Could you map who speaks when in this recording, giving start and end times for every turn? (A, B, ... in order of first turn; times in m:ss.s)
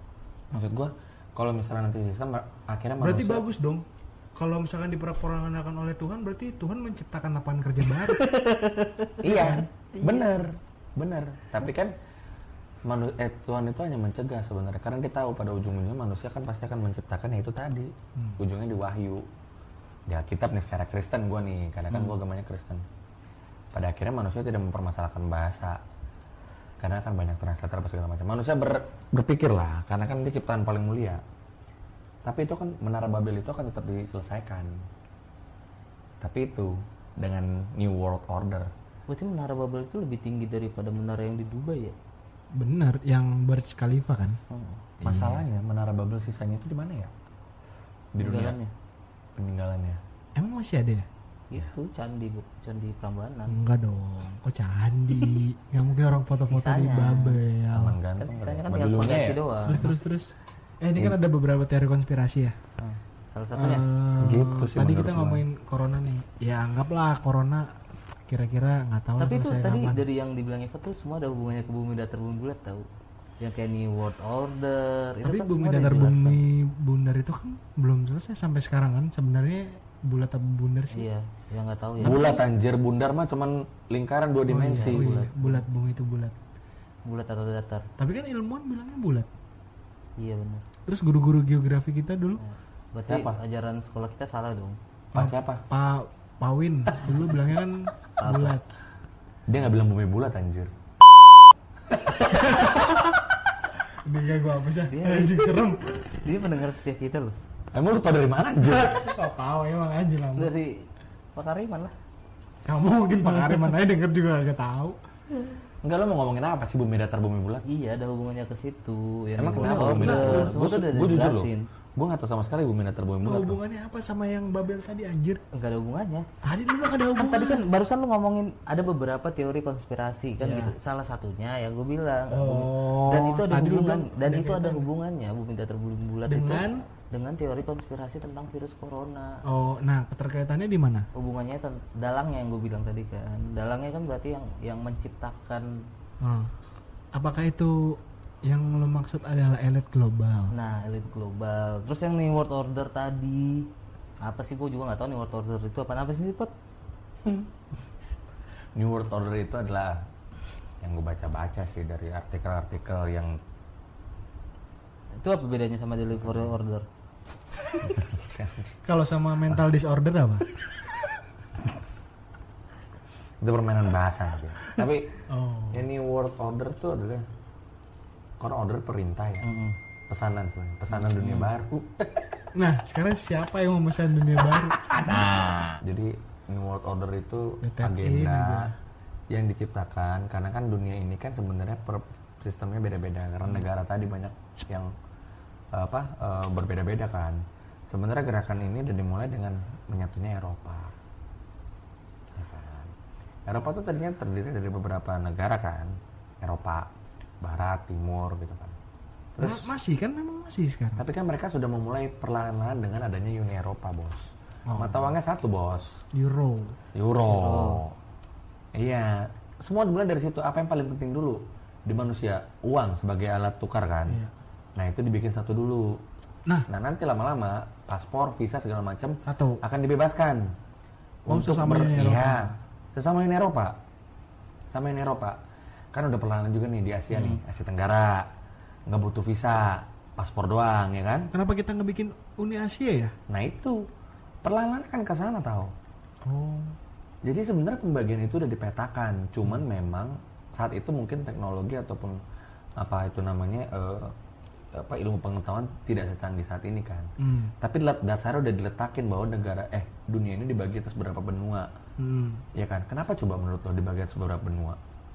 0:00.5-0:03.4 A
0:03.0-0:08.3 B
0:08.1-0:10.2 C
0:09.2-0:11.9 A
0:09.3-0:09.6 B
0:12.8-0:19.2 A
0:20.1-0:22.8 A
0:23.7-0:25.8 A
0:26.8-0:31.2 A
0:32.2-0:34.8 A
0:36.2-0:38.7 A
0:39.1-0:42.0 C
0:42.6-0:44.4 B
0:44.5-0:44.8 C
0:45.0-0:45.4 B
0:45.0-0:47.1 A
0:48.1-0:48.6 A
0:48.2-0:48.7 C
0:49.4-0:50.0 A
0:50.4-0:51.1 B
0:51.5-0:53.6 C
0:53.5-0:58.0 B
0:56.4-0:57.4 C
0:57.7-0:59.9 A
0:58.2-0:59.8 C
0:59.6-1:02.6 B
1:02.8-1:03.9 C
1:03.5-1:07.7 B
1:04.2-1:05.4 A
1:08.3-1:10.0 B
1:09.2-1:12.9 C
1:13.4-1:16.4 C
1:15.2-1:21.1 B
1:20.9-1:22.3 C
1:22.0-1:25.0 A
1:24.5-1:26.4 B
1:24.7-1:25.6 C
1:27.0-1:27.9 C
1:28.0-1:29.3 B
1:30.2-1:30.6 C
1:30.8-1:32.4 B
1:32.4-1:34.8 C
1:33.1-1:33.4 A
1:35.1-1:38.6 B
1:35.1-1:35.6 A
1:38.2-1:38.6 C
1:39.5-1:40.7 A
1:42.3-1:42.7 B
1:44.0-1:45.8 B
1:44.9-1:47.4 C
1:47.7-1:49.0 A
1:48.6-1:50.5 B
1:50.4-1:51.9 C
1:52.6-1:55.0 B
1:55.8-1:57.6 A
1:57.6-2:01.7 C
1:59.4-2:03.6 A
1:59.9-2:00.6 B
2:03.2-2:05.4 B
2:05.5-2:06.3 C
2:06.4-2:07.6 B
2:07.2-2:19.4 C
2:10.4-2:10.7 B
2:12.3-2:14.8 B
2:16.3-2:16.8 B
2:19.4-2:21.1 B
2:21.1-2:25.8 C
2:26.2-2:26.5 B
2:27.1-2:30.5 B
2:30.5-2:36.5 C
2:38.8-2:40.1 A
2:40.8-2:43.4 A
2:45.2-2:46.9 C
2:47.9-2:48.7 A
2:48.8-2:50.5 B
2:53.4-2:55.2 A
2:55.3-2:55.8 B
2:55.7-2:57.2 A
2:58.4-2:59.4 A
2:59.4-2:59.8 C
3:00.1-3:02.3 A
3:02.5-3:05.2 B
3:04.8-3:08.7 A
3:07.6-3:08.7 B
3:09.3-3:14.9 A
3:15.7-3:20.9 A
3:22.3-3:22.9 A
3:23.5-3:26.9 A
3:27.4-3:28.8 A
3:29.3-3:29.7 A
3:29.4-3:31.0 B
3:31.0-3:36.0 A
3:34.7-3:35.1 B
3:36.1-3:36.8 B
3:36.9-3:37.9 A
3:37.3-3:37.8 C
3:38.7-3:44.2 A
3:44.8-3:46.0 A
3:46.7-3:50.5 A
3:49.2-3:49.6 B
3:51.2-3:52.6 B
3:51.3-3:53.8 A
3:54.7-3:55.4 A
3:55.9-3:58.3 A
3:58.9-4:01.3 A
4:01.3-4:03.2 B
4:03.3-4:03.8 A
4:04.4-4:05.7 A
4:06.2-4:06.8 B
4:07.2-4:12.2 A
4:12.8-4:14.1 A
4:14.7-4:17.1 A
4:17.2-4:17.5 B
4:17.6-4:21.7 A
4:22.0-4:22.4 B
4:22.5-4:24.8 A